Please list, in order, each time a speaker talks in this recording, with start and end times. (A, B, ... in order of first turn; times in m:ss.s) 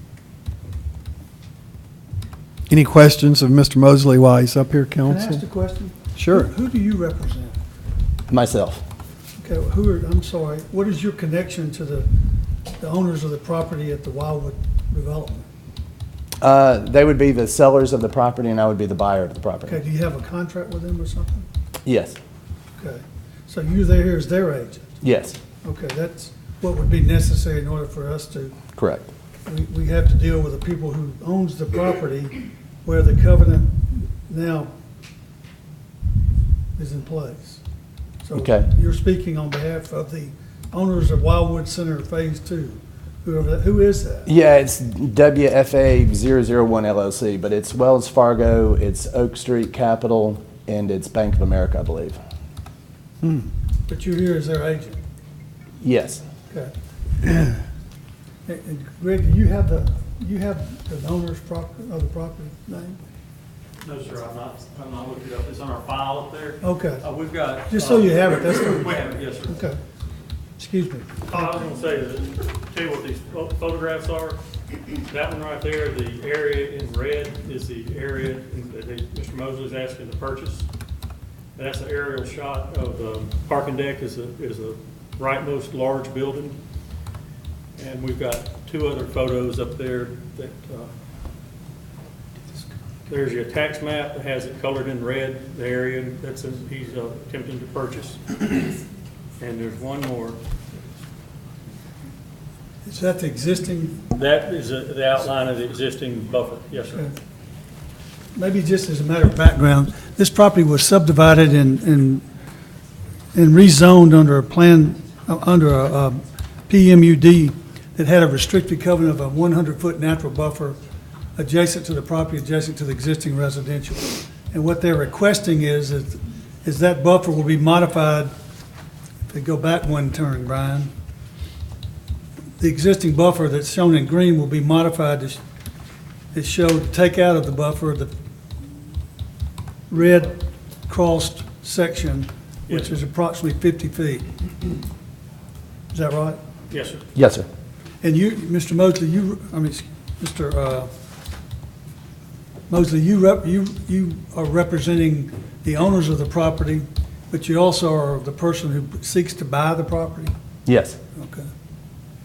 0:02.7-0:05.4 A
0:05.1-0:07.6 B
0:06.2-0:06.5 A
0:08.3-0:08.8 C
0:09.4-0:12.1 B
0:12.8-0:15.4 B
0:16.4-0:19.8 C
0:19.6-0:21.5 B
0:21.8-0:22.2 C
0:22.8-0:25.0 B
0:25.0-0:25.4 C
0:25.6-0:28.6 B
0:28.8-0:29.1 C
0:29.4-0:34.7 B
0:36.8-0:37.6 B
0:38.2-0:44.3 B
0:38.3-0:38.7 C
0:44.2-0:52.2 C
0:53.9-0:55.0 B
0:55.8-0:56.2 C
0:57.2-0:57.5 B
0:58.4-1:03.0 B
1:03.8-1:09.6 D
1:06.6-1:07.0 B
1:07.7-1:09.8 B
1:10.6-1:11.3 B
1:11.3-1:14.4 D
1:15.1-1:20.7 D
1:21.6-1:26.6 D
1:27.8-1:30.9 D
1:33.1-1:38.7 D
1:39.4-1:40.4 D
1:42.8-1:44.1 B
1:44.1-1:47.0 D
1:48.3-1:52.2 B
1:53.3-2:00.8 B
2:01.4-2:08.3 B
2:09.3-2:10.9 B
2:12.6-2:15.4 B
2:16.3-2:18.1 B
2:19.9-2:24.3 B
2:22.7-2:22.9 D
2:25.9-2:26.4 B
2:26.7-2:27.0 D
2:27.2-2:27.5 C
2:28.0-2:30.9 B
2:32.7-2:40.3 B
2:40.6-2:41.0 C
2:41.2-2:41.5 B